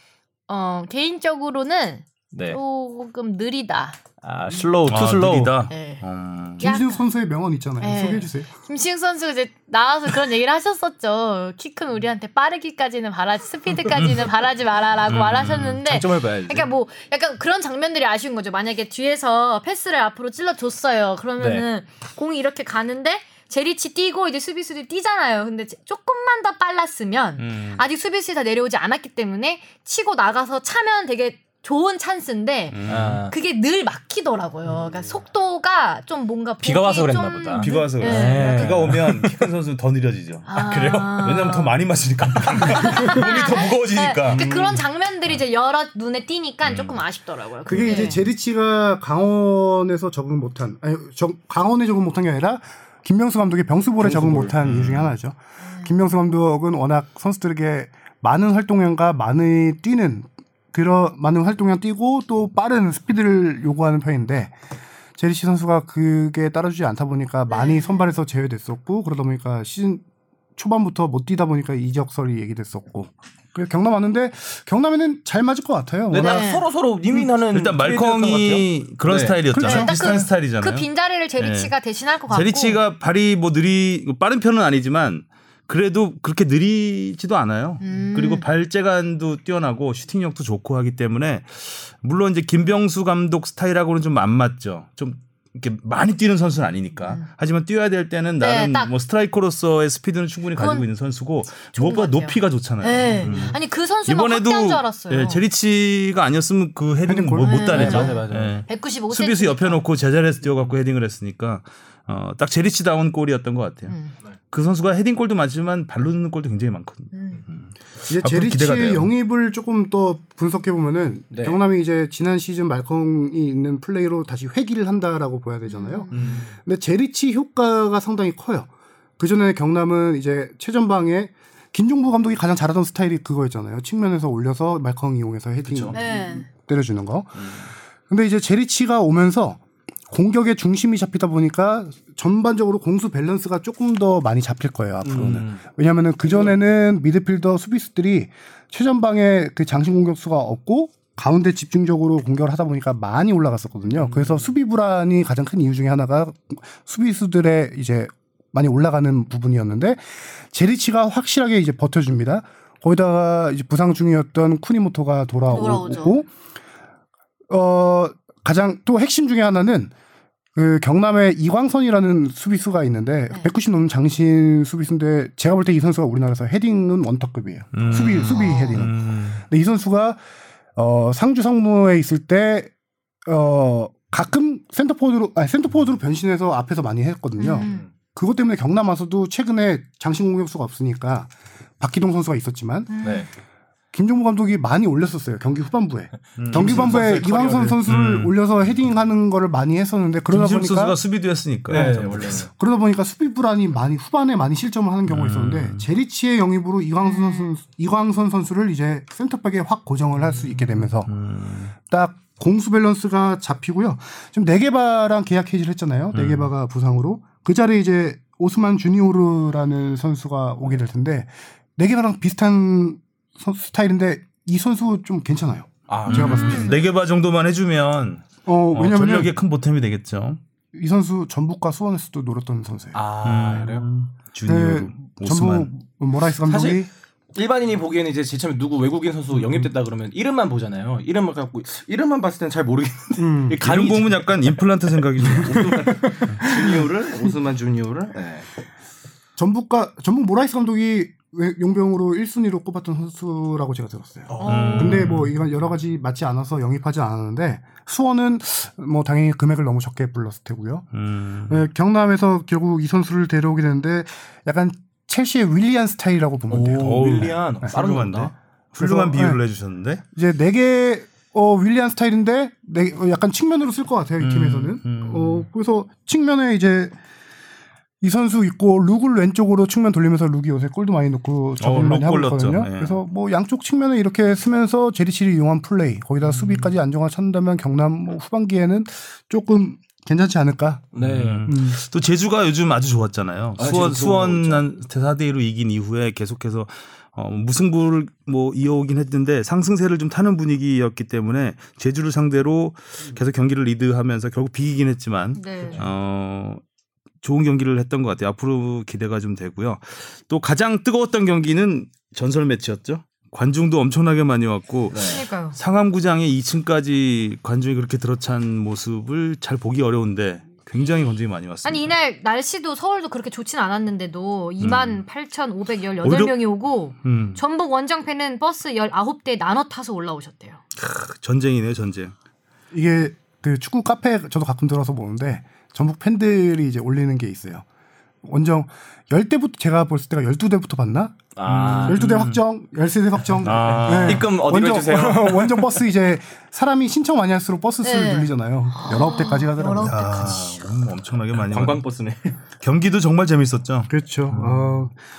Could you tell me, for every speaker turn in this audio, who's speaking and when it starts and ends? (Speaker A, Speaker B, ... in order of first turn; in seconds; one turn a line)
Speaker A: 0.5-4.0
Speaker B: 2.3-2.6
Speaker B: 4.2-5.5
Speaker C: 4.9-6.7
Speaker A: 5.7-6.0
Speaker A: 6.6-7.0
Speaker D: 6.6-8.5
Speaker A: 7.8-39.0
Speaker C: 13.9-14.3
Speaker C: 15.1-15.8
Speaker B: 15.8-16.7
Speaker B: 21.4-21.6
Speaker C: 27.4-27.8
Speaker C: 32.7-33.2
Speaker B: 32.9-33.3
Speaker B: 36.6-39.5
Speaker C: 37.6-44.5
Speaker A: 40.5-41.7
Speaker A: 42.6-48.2
Speaker B: 44.3-44.7
Speaker C: 46.6-47.0
Speaker D: 47.7-64.5
Speaker B: 54.0-54.5
Speaker C: 54.6-55.1
Speaker A: 55.6-55.9
Speaker D: 65.2-70.0
Speaker A: 67.5-68.1
Speaker D: 70.5-76.5
Speaker B: 76.1-79.4
Speaker A: 76.2-76.6
Speaker C: 77.5-81.7
Speaker D: 79.5-80.2
Speaker A: 79.6-82.8
Speaker C: 82.3-113.9
Speaker A: 87.8-88.4
Speaker A: 97.0-97.3
Speaker A: 98.4-98.9
Speaker A: 100.5-100.8
Speaker A: 101.7-105.4
Speaker B: 103.2-103.5
Speaker D: 107.0-108.1
Speaker A: 107.4-109.8
Speaker B: 107.7-108.6
Speaker A: 113.9-114.1
Speaker C: 114.5-119.1
Speaker A: 117.1-117.4
Speaker D: 118.1-166.3
Speaker B: 121.3-121.6
Speaker A: 125.7-126.1
Speaker B: 126.1-126.5
Speaker C: 126.1-126.4
Speaker B: 135.7-135.9
Speaker A: 135.9-136.5
Speaker B: 145.0-145.6
Speaker B: 146.3-146.5
Speaker B: 154.0-154.5
Speaker A: 165.5-166.2
Speaker D: 167.5-169.9
Speaker D: 170.5-180.2
Speaker C: 177.7-179.4
Speaker A: 178.2-178.8
Speaker D: 180.8-182.7
Speaker D: 183.2-192.9
Speaker A: 187.4-187.8
Speaker B: 187.6-187.9
Speaker A: 192.9-193.3
Speaker B: 193.0-193.3
Speaker D: 193.9-201.0
Speaker C: 196.4-197.0
Speaker B: 196.4-197.8
Speaker C: 197.8-198.3
Speaker C: 200.3-202.5
Speaker B: 201.7-202.5
Speaker D: 201.7-211.1
Speaker C: 205.1-205.8
Speaker A: 207.0-207.5
Speaker C: 211.1-211.7
Speaker D: 211.9-226.8
Speaker C: 216.1-216.5
Speaker B: 225.9-226.8
Speaker C: 226.1-230.4
Speaker A: 226.3-226.8
Speaker D: 228.4-229.3
Speaker D: 230.7-233.0
Speaker B: 232.9-233.9
Speaker C: 233.2-235.7
Speaker D: 234.4-236.9
Speaker B: 236.4-248.5
Speaker D: 243.2-243.6
Speaker C: 243.6-245.7
Speaker D: 245.4-247.3
Speaker D: 249.4-260.9
Speaker B: 254.3-255.1
Speaker A: 254.4-255.1
Speaker C: 254.4-255.3
Speaker C: 260.9-261.6
Speaker D: 261.5-267.7
Speaker B: 266.5-268.3
Speaker C: 266.8-270.0
Speaker D: 268.8-269.4
Speaker D: 270.1-276.9
Speaker C: 274.2-275.5
Speaker D: 278.0-290.9
Speaker C: 281.6-283.0
Speaker B: 290.9-291.5
Speaker C: 291.0-306.6
Speaker D: 291.4-291.8
Speaker B: 293.6-294.6
Speaker A: 305.3-305.8
Speaker C: 307.2-321.9
Speaker B: 314.9-315.2
Speaker A: 315.0-315.6
Speaker A: 321.6-330.6
Speaker C: 324.6-325.0
Speaker C: 326.0-326.4
Speaker C: 327.0-327.4
Speaker C: 330.8-332.1
Speaker D: 332.7-337.6
Speaker D: 338.2-341.2
Speaker B: 341.4-342.0
Speaker C: 341.4-342.4
Speaker D: 341.8-350.4
Speaker C: 343.4-344.3
Speaker B: 343.4-345.7
Speaker A: 347.8-350.6
Speaker C: 349.8-351.8
Speaker B: 351.4-352.4
Speaker C: 352.6-354.9
Speaker D: 353.9-354.9